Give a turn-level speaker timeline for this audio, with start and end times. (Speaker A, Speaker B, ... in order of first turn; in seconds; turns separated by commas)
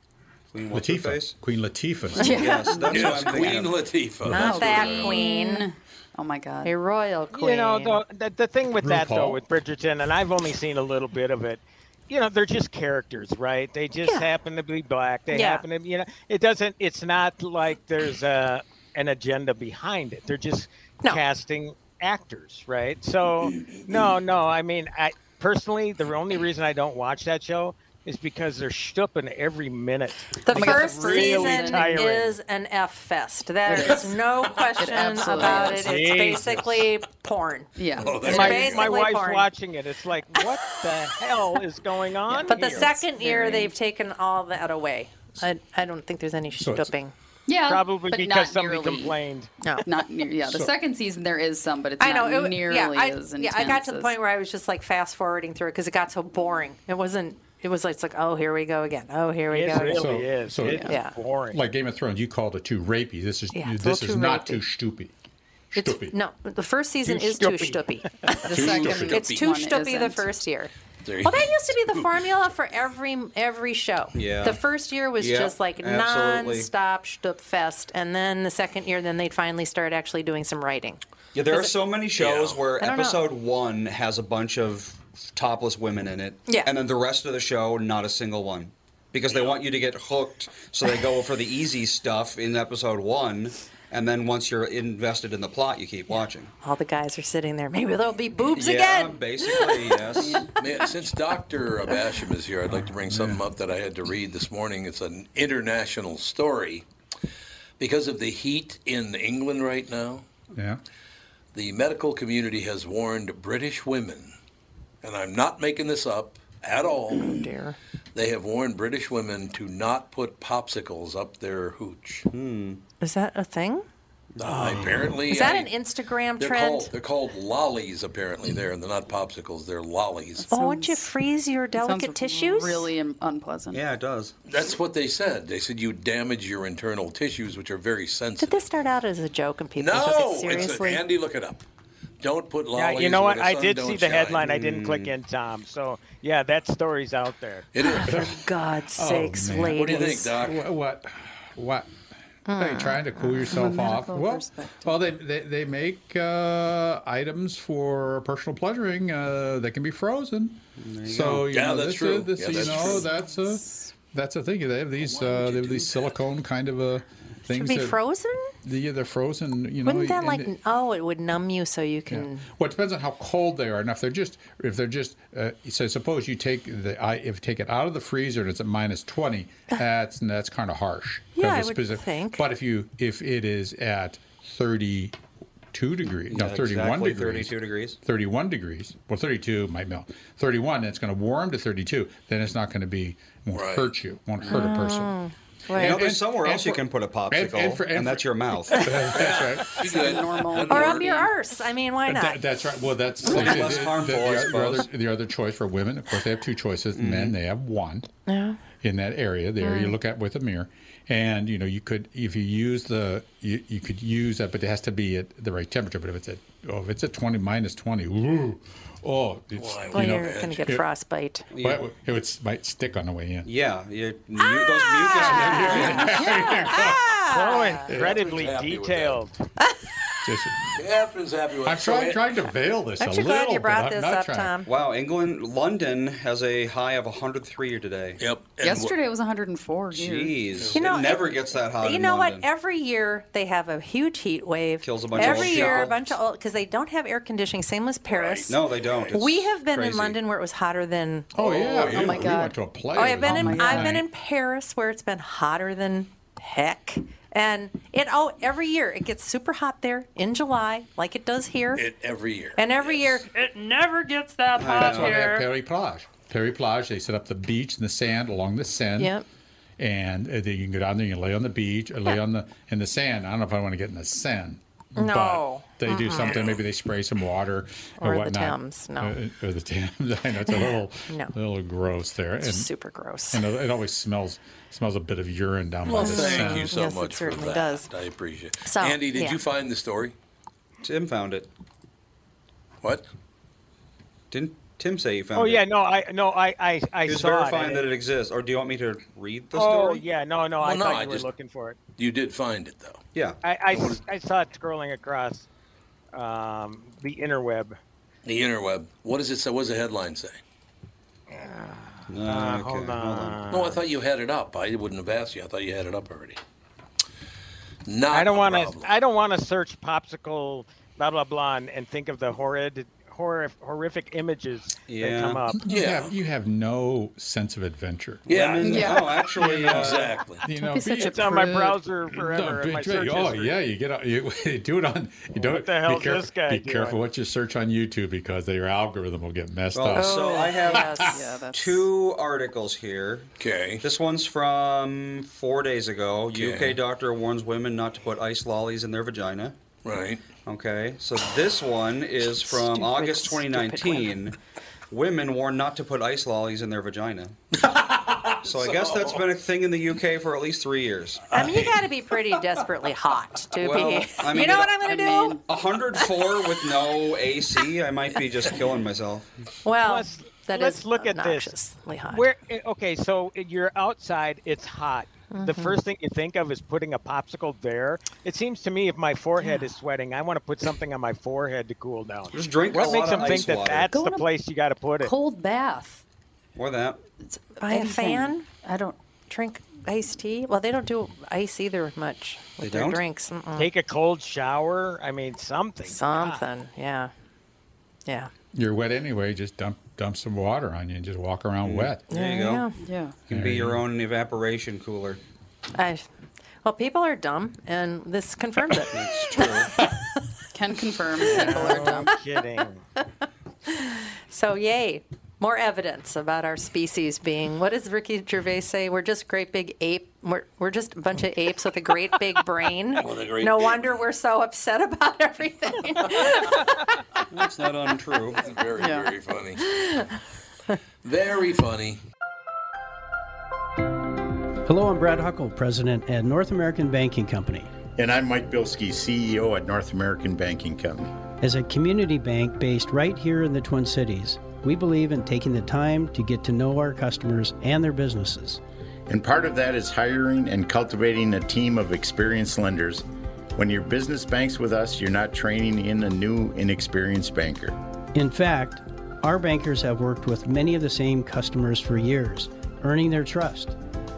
Speaker A: 0.5-1.4, Speaker B: 0.7-2.4, Speaker C: 2.2-3.5, Speaker A: 2.2-3.8, Speaker D: 2.2-2.5, Speaker E: 2.9-5.2, Speaker D: 4.3-5.7, Speaker C: 4.3-6.8, Speaker D: 6.6-8.0, Speaker F: 7.3-32.4, Speaker B: 8.8-9.4, Speaker D: 15.3-15.6, Speaker D: 30.4-39.5, Speaker C: 30.5-32.1, Speaker C: 33.6-36.1, Speaker F: 35.4-36.6, Speaker C: 37.8-38.3, Speaker E: 38.0-39.0, Speaker F: 38.2-43.0, Speaker D: 42.4-47.1, Speaker C: 42.5-43.8, Speaker B: 46.6-46.9, Speaker C: 47.5-49.1, Speaker F: 47.6-49.5, Speaker C: 49.8-54.1, Speaker B: 50.5-50.7, Speaker D: 52.0-60.1, Speaker F: 59.5-61.6, Speaker B: 59.8-60.9, Speaker D: 60.9-61.2, Speaker B: 61.5-65.1, Speaker D: 63.5-64.6, Speaker B: 65.7-66.1, Speaker D: 65.7-81.7, Speaker F: 67.1-68.2, Speaker C: 68.4-70.5, Speaker E: 68.5-69.5, Speaker B: 68.7-69.0, Speaker E: 71.0-72.1, Speaker A: 74.1-74.6, Speaker A: 75.2-76.7, Speaker A: 81.3-96.5, Speaker E: 82.2-82.6, Speaker D: 82.8-83.2, Speaker D: 86.5-86.7, Speaker D: 96.6-100.2, Speaker A: 98.5-100.5, Speaker E: 100.6-106.8, Speaker B: 102.7-103.4, Speaker E: 107.8-110.3, Speaker B: 110.5-110.8, Speaker E: 111.5-114.3, Speaker E: 115.0-117.5, Speaker D: 117.2-117.8, Speaker E: 118.1-122.3, Speaker A: 122.3-122.8, Speaker D: 123.0-123.9, Speaker A: 124.3-125.2, Speaker E: 124.4-125.7, Speaker D: 125.3-126.9, Speaker E: 126.4-130.4, Speaker C: 130.4-131.1, Speaker D: 130.5-132.9, Speaker C: 131.8-133.8, Speaker A: 133.7-134.3, Speaker E: 134.5-138.7, Speaker D: 138.4-141.0, Speaker E: 139.8-141.6, Speaker E: 142.2-144.4, Speaker F: 142.7-147.7, Speaker A: 144.4-145.1, Speaker E: 147.7-148.3, Speaker D: 147.8-150.3, Speaker B: 148.1-148.4, Speaker B: 149.0-151.9, Speaker E: 149.7-150.6, Speaker D: 152.5-153.1, Speaker B: 152.6-168.0, Speaker C: 153.4-155.0, Speaker A: 160.8-161.5, Speaker E: 161.5-163.1, Speaker C: 162.7-163.9, Speaker E: 165.1-166.1, Speaker D: 167.5-168.5, Speaker B: 168.6-170.5, Speaker D: 169.8-172.4, Speaker B: 172.1-185.2, Speaker D: 181.4-182.4, Speaker B: 185.7-195.1, Speaker A: 186.3-188.0, Speaker E: 193.5-193.9, Speaker D: 194.5-196.0, Speaker B: 195.7-199.7, Speaker A: 195.8-198.9, Speaker E: 199.1-201.2, Speaker C: 199.8-201.3, Speaker D: 200.7-202.4, Speaker B: 202.1-208.1, Speaker A: 203.2-204.9, Speaker A: 206.9-207.4, Speaker D: 208.3-208.6, Speaker B: 208.8-220.8, Speaker D: 209.6-209.9, Speaker E: 219.6-220.7, Speaker D: 219.9-221.5, Speaker A: 221.5-221.8, Speaker B: 221.6-223.5, Speaker A: 223.4-226.3, Speaker D: 224.4-227.9, Speaker B: 225.1-227.1, Speaker F: 227.3-229.4, Speaker B: 227.9-228.1, Speaker E: 227.9-229.2, Speaker B: 230.2-230.7, Speaker E: 230.7-232.3, Speaker B: 231.6-234.6, Speaker D: 233.0-234.7, Speaker A: 234.6-238.2, Speaker E: 238.2-239.0, Speaker C: 238.6-240.4, Speaker A: 239.9-242.5, Speaker E: 240.6-240.8, Speaker D: 240.7-248.6, Speaker A: 244.8-246.2, Speaker E: 245.2-245.8, Speaker E: 248.1-249.2, Speaker A: 248.5-250.2, Speaker D: 249.1-251.3, Speaker B: 251.3-254.1, Speaker E: 251.4-252.4, Speaker C: 251.9-252.6, Speaker D: 252.9-261.8, Speaker C: 253.1-254.0, Speaker E: 261.7-263.2, Speaker D: 262.6-265.4, Speaker A: 264.6-265.3, Speaker B: 264.7-269.1, Speaker D: 269.0-269.2, Speaker B: 269.8-282.7, Speaker D: 275.0-276.4, Speaker D: 278.0-279.2, Speaker D: 281.1-281.3, Speaker D: 282.4-283.4, Speaker B: 283.3-286.7, Speaker E: 285.9-290.1, Speaker D: 285.9-287.9, Speaker D: 288.6-289.4, Speaker A: 290.8-291.5, Speaker A: 294.3-295.6, Speaker F: 295.3-297.9, Speaker A: 297.1-300.0, Speaker F: 299.5-301.8, Speaker E: 300.6-301.3, Speaker E: 302.0-303.0, Speaker F: 303.4-305.4, Speaker E: 303.7-304.0, Speaker F: 306.1-307.8, Speaker E: 308.2-310.4, Speaker F: 311.3-313.8, Speaker A: 312.1-313.4, Speaker E: 313.5-316.4, Speaker E: 317.9-318.9, Speaker F: 318.1-325.6, Speaker A: 324.9-325.4, Speaker B: 325.6-328.2, Speaker E: 325.7-326.1, Speaker E: 328.3-330.4, Speaker A: 328.3-330.1, Speaker C: 328.6-329.4, Speaker B: 329.4-331.2, Speaker C: 330.5-331.8, Speaker F: 330.9-333.6, Speaker B: 332.1-341.1, Speaker F: 335.4-337.0, Speaker A: 339.7-343.3, Speaker D: 339.9-341.2, Speaker C: 340.2-341.9, Speaker E: 343.4-343.9, Speaker A: 343.8-349.6, Speaker E: 346.3-346.8, Speaker E: 349.8-350.2, Speaker A: 350.4-354.4, Speaker D: 352.4-354.1, Speaker A: 354.9-357.4, Speaker E: 357.6-359.3, Speaker A: 358.4-361.3, Speaker E: 361.3-362.4, Speaker D: 361.3-365.4, Speaker A: 363.6-364.8, Speaker C: 364.4-365.4, Speaker A: 365.4-369.3, Speaker D: 369.6-372.3, Speaker F: 369.8-371.5, Speaker F: 372.1-385.1, Speaker D: 375.3-375.8, Speaker A: 382.3-383.9, Speaker C: 383.9-384.3, Speaker C: 385.0-386.0, Speaker A: 386.6-387.0, Speaker D: 387.6-388.5, Speaker C: 387.6-389.0, Speaker D: 389.3-393.7, Speaker A: 392.6-393.0, Speaker F: 393.6-396.4, Speaker D: 395.9-397.1, Speaker B: 398.6-402.0, Speaker A: 401.6-402.7, Speaker D: 402.1-402.8, Speaker C: 402.8-403.2, Speaker A: 403.3-405.2, Speaker B: 403.3-403.8, Speaker D: 405.8-406.1, Speaker D: 406.6-409.6, Speaker A: 408.9-409.7, Speaker C: 410.5-412.1, Speaker F: 411.2-412.8, Speaker D: 411.6-412.1, Speaker D: 413.7-427.0, Speaker E: 422.9-424.0, Speaker A: 427.3-428.4, Speaker E: 428.4-429.6, Speaker C: 428.8-429.1, Speaker D: 429.7-430.1, Speaker E: 431.0-432.0, Speaker G: 434.6-437.7, Speaker H: 437.9-441.1, Speaker G: 441.4-448.6, Speaker H: 449.1-453.1, Speaker H: 453.6-457.8, Speaker G: 458.1-463.8